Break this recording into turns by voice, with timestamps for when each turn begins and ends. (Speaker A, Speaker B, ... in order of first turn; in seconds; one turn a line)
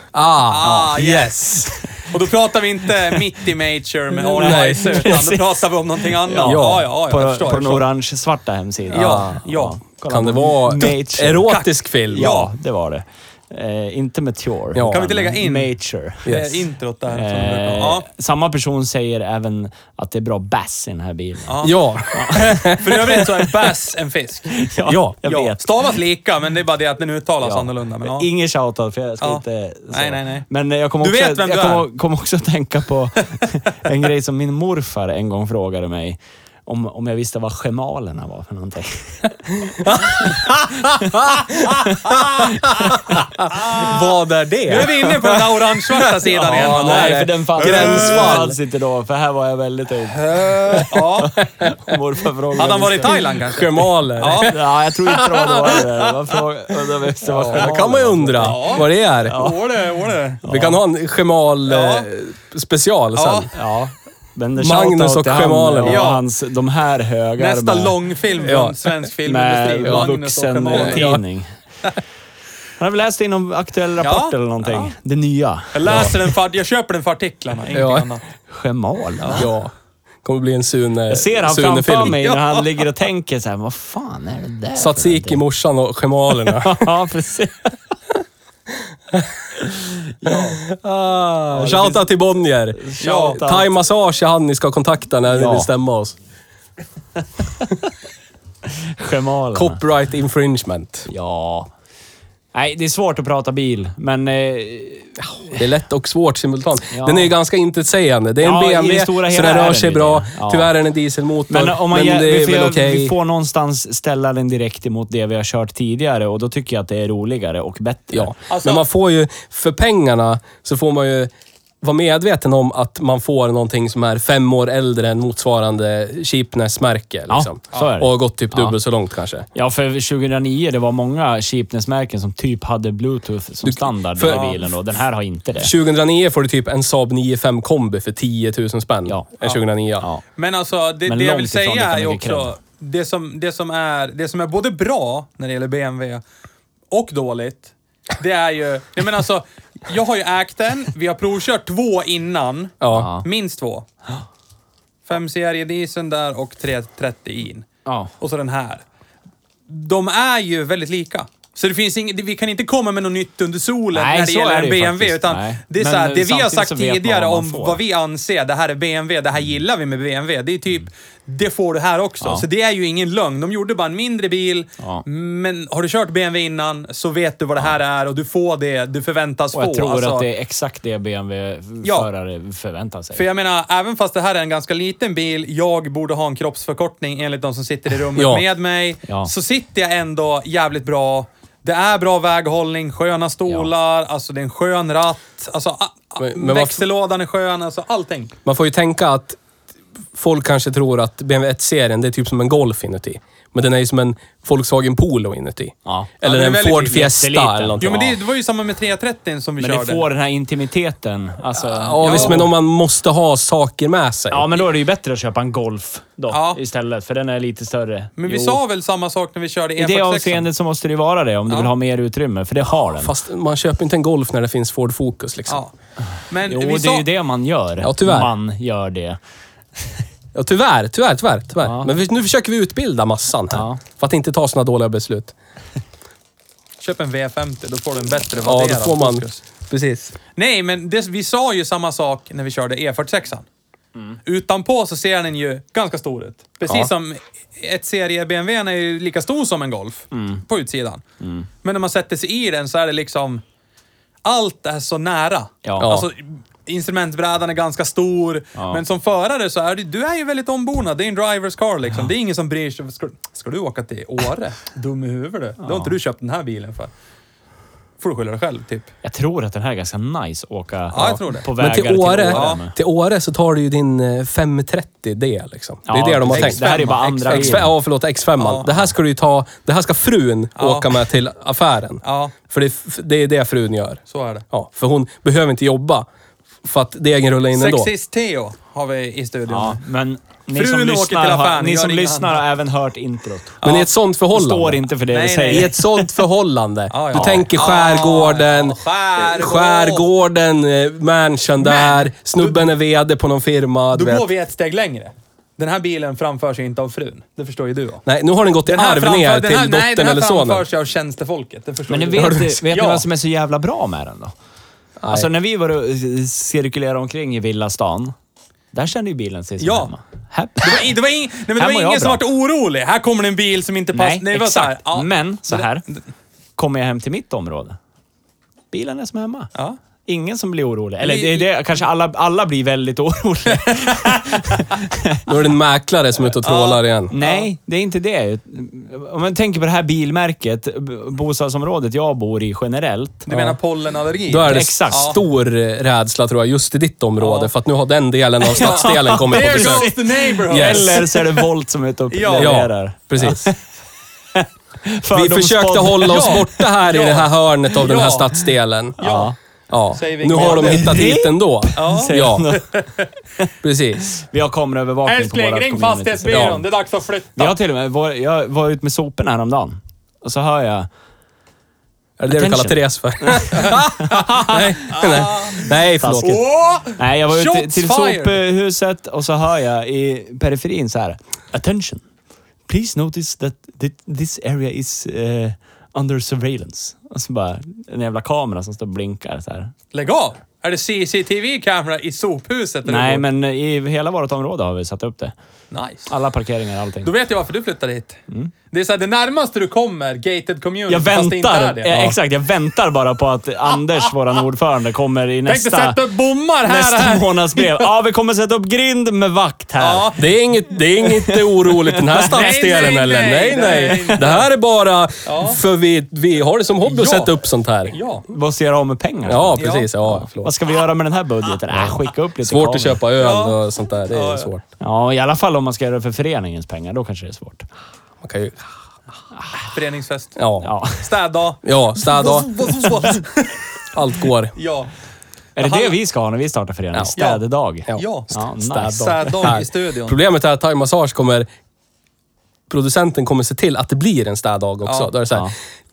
Speaker A: 0.1-1.8
Speaker B: 0.5-7.9
Speaker C: 4.2-5.4
Speaker A: 4.4-5.2
Speaker C: 6.0-11.6
Speaker A: 6.4-6.8
Speaker A: 8.9-9.3
Speaker B: 8.9-9.8
Speaker A: 10.1-12.3
Speaker B: 11.5-12.5
Speaker C: 12.1-16.4
Speaker A: 14.8-15.1
Speaker B: 14.9-15.7
Speaker B: 16.2-18.1
Speaker A: 16.3-16.6
Speaker C: 17.1-23.7
Speaker B: 21.5-21.8
Speaker A: 21.6-22.9
Speaker B: 22.3-24.6
Speaker C: 24.5-26.0
Speaker A: 24.9-25.2
Speaker B: 25.2-28.3
Speaker C: 27.4-40.4
Speaker B: 29.2-30.5
Speaker B: 31.0-31.9
Speaker A: 39.8-45.4
Speaker C: 41.7-42.6
Speaker B: 43.5-44.1
Speaker B: 44.7-48.5
Speaker C: 46.3-53.2
Speaker A: 46.4-48.6
Speaker B: 50.1-51.4
Speaker B: 52.6-54.6
Speaker A: 53.0-55.8
Speaker C: 54.3-59.6
Speaker B: 57.3-57.8
Speaker A: 57.4-59.5
Speaker B: 58.4-60.5
Speaker C: 60.4-60.8
Speaker A: 60.5-63.5
Speaker B: 61.7-62.1
Speaker B: 63.1-63.5
Speaker C: 63.5-68.0
Speaker A: 64.6-66.1
Speaker B: 65.8-66.2
Speaker B: 67.4-71.2
Speaker A: 68.4-68.9
Speaker C: 69.3-71.5
Speaker A: 70.7-71.2
Speaker C: 72.8-76.2
Speaker B: 74.0-74.9
Speaker B: 75.7-78.2
Speaker A: 75.9-76.1
Speaker A: 77.7-78.1
Speaker C: 78.5-79.5
Speaker B: 79.2-79.5
Speaker A: 79.3-79.7
Speaker A: 80.2-82.2
Speaker C: 81.1-85.4
Speaker B: 82.0-82.8
Speaker A: 84.8-86.9
Speaker C: 86.4-87.8
Speaker C: 89.6-90.6
Speaker A: 90.3-96.2
Speaker C: 91.5-92.1
Speaker C: 92.8-93.7
Speaker B: 93.0-93.4
Speaker C: 95.3-95.7
Speaker C: 97.4-97.7
Speaker C: 98.7-99.8
Speaker A: 99.5-101.1
Speaker C: 101.1-101.7
Speaker C: 102.5-105.6
Speaker A: 105.5-113.2
Speaker C: 106.9-107.3
Speaker C: 108.4-110.7
Speaker C: 111.5-118.3
Speaker A: 118.1-121.3
Speaker B: 118.5-118.9
Speaker A: 121.8-129.5
Speaker C: 127.3-128.8
Speaker C: 129.5-135.7
Speaker A: 133.6-134.6
Speaker B: 134.3-134.6
Speaker A: 135.6-140.1
Speaker C: 139.1-139.4
Speaker B: 140.4-146.2
Speaker C: 141.1-142.6
Speaker B: 146.9-153.9
Speaker A: 152.8-153.1
Speaker C: 152.9-153.2
Speaker B: 155.1-157.7
Speaker C: 157.8-158.1
Speaker B: 158.2-158.8
Speaker B: 159.7-180.3
Speaker C: 163.9-167.8
Speaker C: 179.5-183.3
Speaker B: 181.8-182.1
Speaker B: 183.1-198.3
Speaker A: 188.2-188.4
Speaker A: 196.2-196.8
Speaker A: 198.4-199.4
Speaker A: 200.2-208.1
Speaker C: 205.8-206.1
Speaker B: 206.2-207.1
Speaker C: 206.9-208.2
Speaker B: 207.8-210.1
Speaker C: 209.6-212.5
Speaker A: 211.6-214.6
Speaker B: 212.0-212.5
Speaker C: 214.3-218.6
Speaker B: 216.3-216.6
Speaker B: 218.2-220.5
Speaker C: 219.8-223.1
Speaker A: 223.0-225.6
Speaker B: 225.5-225.7
Speaker B: 226.3-227.1
Speaker C: 226.4-229.2
Speaker A: 227.8-228.3
Speaker A: 230.3-235.3
Speaker C: 231.6-231.9
Speaker C: 233.5-233.8
Speaker B: 236.8-239.4
Speaker A: 238.4-240.2
Speaker B: 240.3-243.5
Speaker B: 244.2-251.0
Speaker C: 250.1-250.4
Speaker C: 251.2-251.5
Speaker B: 251.6-253.4
Speaker B: 254.2-266.9
Speaker C: 255.6-255.9
Speaker A: 255.8-256.1
Speaker C: 258.6-258.8
Speaker C: 265.6-266.0
Speaker B: 268.0-268.9
Speaker C: 269.0-272.8
Speaker B: 270.9-271.5
Speaker A: 271.0-276.7
Speaker B: 272.3-272.6
Speaker C: 275.9-277.7
Speaker B: 276.3-277.6
Speaker A: 277.2-286.1
Speaker B: 278.4-278.7
Speaker B: 280.6-281.0
Speaker B: 282.0-282.3
Speaker B: 284.1-284.4
Speaker A: 286.6-287.9
Speaker B: 287.5-289.8
Speaker C: 289.5-293.6
Speaker B: 290.5-292.4
Speaker B: 293.6-293.9
Speaker A: 293.6-294.8
Speaker C: 294.3-296.1
Speaker B: 295.1-295.8
Speaker A: 295.5-304.3
Speaker B: 296.9-300.1
Speaker C: 297.1-297.5
Speaker B: 301.6-302.7
Speaker B: 303.9-308.0
Speaker A: 308.1-310.6
Speaker B: 308.7-313.0
Speaker C: 311.9-314.3
Speaker A: 312.1-312.5
Speaker A: 315.0-315.3
Speaker C: 315.1-318.1
Speaker C: 318.7-320.9
Speaker B: 319.6-319.9
Speaker B: 320.6-326.0
Speaker C: 321.5-322.2
Speaker C: 323.9-325.9
Speaker C: 326.6-327.8
Speaker C: 328.7-329.5
Speaker C: 330.1-335.4
Speaker B: 331.0-331.5
Speaker A: 335.3-337.1
Speaker B: 336.4-337.5
Speaker C: 337.1-343.3
Speaker B: 343.3-345.2
Speaker A: 343.3-343.6
Speaker A: 344.3-351.1
Speaker C: 344.5-345.2
Speaker B: 347.2-347.5
Speaker C: 348.5-353.6
Speaker B: 348.5-351.3
Speaker B: 352.1-352.6
Speaker A: 352.3-353.6
Speaker C: 354.4-356.7
Speaker A: 355.1-359.0
Speaker B: 356.1-358.4
Speaker B: 359.0-359.3
Speaker C: 359.0-359.4
Speaker A: 359.7-362.5
Speaker B: 359.9-361.1
Speaker C: 360.4-362.8
Speaker B: 361.8-363.1
Speaker A: 363.6-364.1
Speaker C: 364.1-366.7
Speaker B: 365.1-367.6
Speaker A: 366.3-366.6
Speaker C: 367.4-370.9
Speaker A: 372.2-376.4
Speaker C: 372.3-374.2
Speaker B: 373.5-378.4
Speaker C: 376.0-376.4
Speaker C: 377.0-382.0
Speaker C: 382.7-389.7
Speaker B: 389.9-393.3
Speaker C: 392.9-395.3
Speaker B: 395.7-396.1
Speaker C: 396.1-397.1
Speaker B: 397.0-398.2
Speaker B: 398.7-402.1
Speaker C: 400.9-406.0
Speaker B: 405.5-407.9
Speaker C: 406.6-410.1
Speaker B: 409.8-410.2
Speaker A: 410.2-418.0
Speaker C: 411.0-412.6
Speaker B: 412.2-414.5
Speaker C: 413.6-414.3
Speaker B: 415.2-415.6
Speaker B: 416.9-417.4
Speaker B: 417.9-418.3
Speaker C: 418.3-423.0
Speaker A: 419.3-420.5
Speaker B: 419.6-419.9
Speaker A: 421.7-424.6
Speaker B: 423.2-423.6
Speaker B: 424.1-424.5
Speaker C: 424.8-427.7
Speaker A: 428.2-428.6
Speaker C: 429.4-429.7
Speaker B: 429.7-430.4
Speaker A: 430.4-430.7
Speaker C: 430.6-431.0
Speaker B: 431.0-433.6
Speaker A: 431.6-433.1
Speaker A: 433.9-434.6
Speaker B: 434.6-434.9
Speaker C: 435.6-439.5
Speaker B: 435.6-435.9
Speaker B: 437.2-437.4
Speaker B: 437.9-440.2
Speaker A: 439.4-441.5
Speaker A: 442.7-445.5
Speaker B: 444.9-445.1